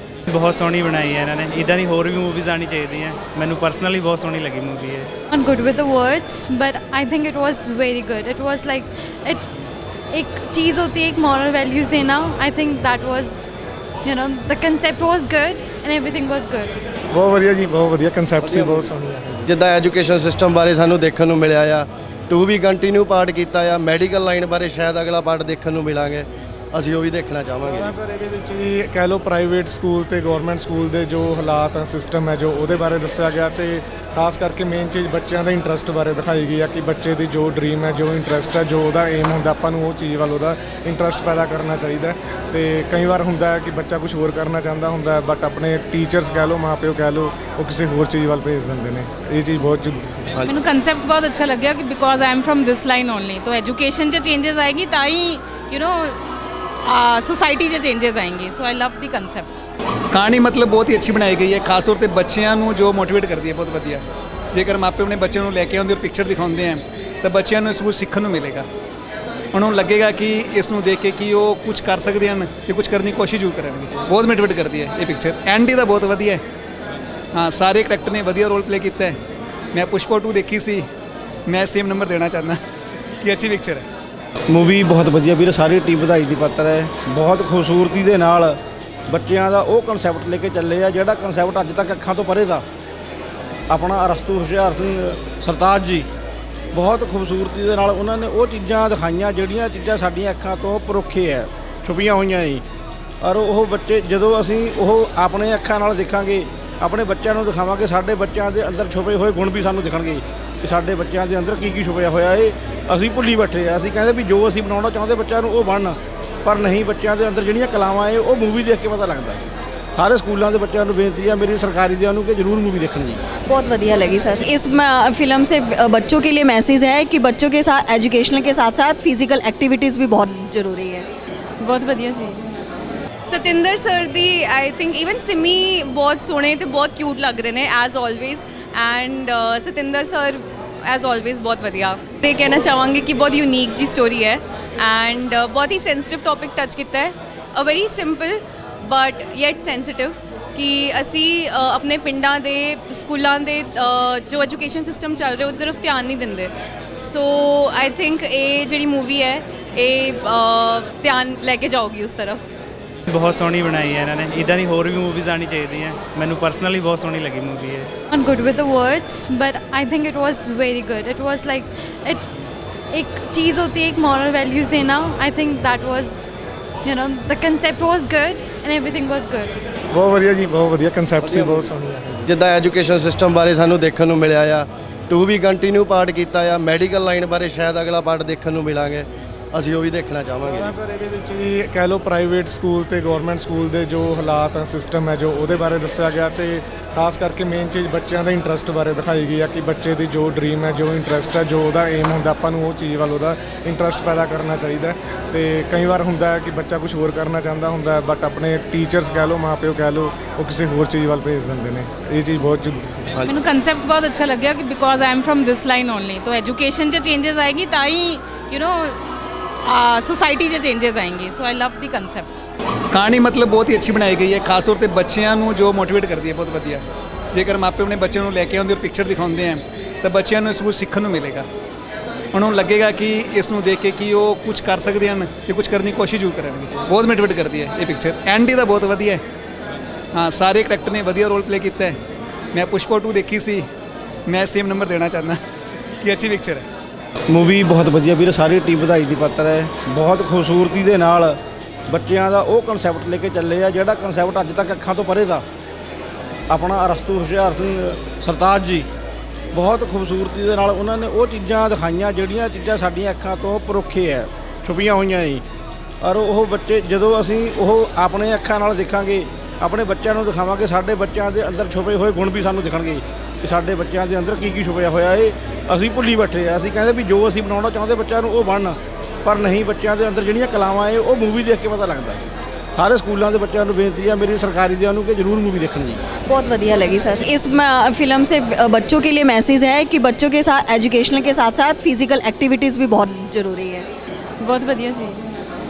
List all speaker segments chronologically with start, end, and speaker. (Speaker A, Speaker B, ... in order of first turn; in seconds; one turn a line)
Speaker A: 0.3-5.1
Speaker B: 5.3-9.4
Speaker B: 10.1-13.5
Speaker B: 14.1-16.7
Speaker C: 17.1-19.5
Speaker D: 18.4-27.9
Speaker C: 27.6-50.5
Speaker E: 50.5-56.2
Speaker E: 56.8-59.5
Speaker F: 60.1-68.7
Speaker F: 69.5-76.4
Speaker F: 77.3-79.2
Speaker F: 79.7-80.9
Speaker F: 81.5-82.6
Speaker F: 83.2-83.9
Speaker G: 84.5-92.6
Speaker G: 93.7-96.1
Speaker G: 96.7-102.6
Speaker G: 103.2-123.2
Speaker H: 123.5-131.1
Speaker I: 133.3-162.4
Speaker A: 163.1-167.9
Speaker B: 168.1-172.2
Speaker B: 172.9-176.3
Speaker B: 176.8-179.5
Speaker C: 179.9-182.3
Speaker D: 181.2-190.7
Speaker C: 190.4-213.3
Speaker E: 213.2-219.0
Speaker E: 219.6-222.4
Speaker F: 222.9-231.5
Speaker F: 232.3-239.2
Speaker F: 240.1-242.0
Speaker F: 242.5-243.7
Speaker F: 244.3-245.4
Speaker F: 246.0-246.7
Speaker G: 247.3-255.4
Speaker G: 256.5-258.9
Speaker G: 259.5-265.4
Speaker G: 266.0-282.2
Speaker G: 282.8-286.0
Speaker H: 286.3-293.9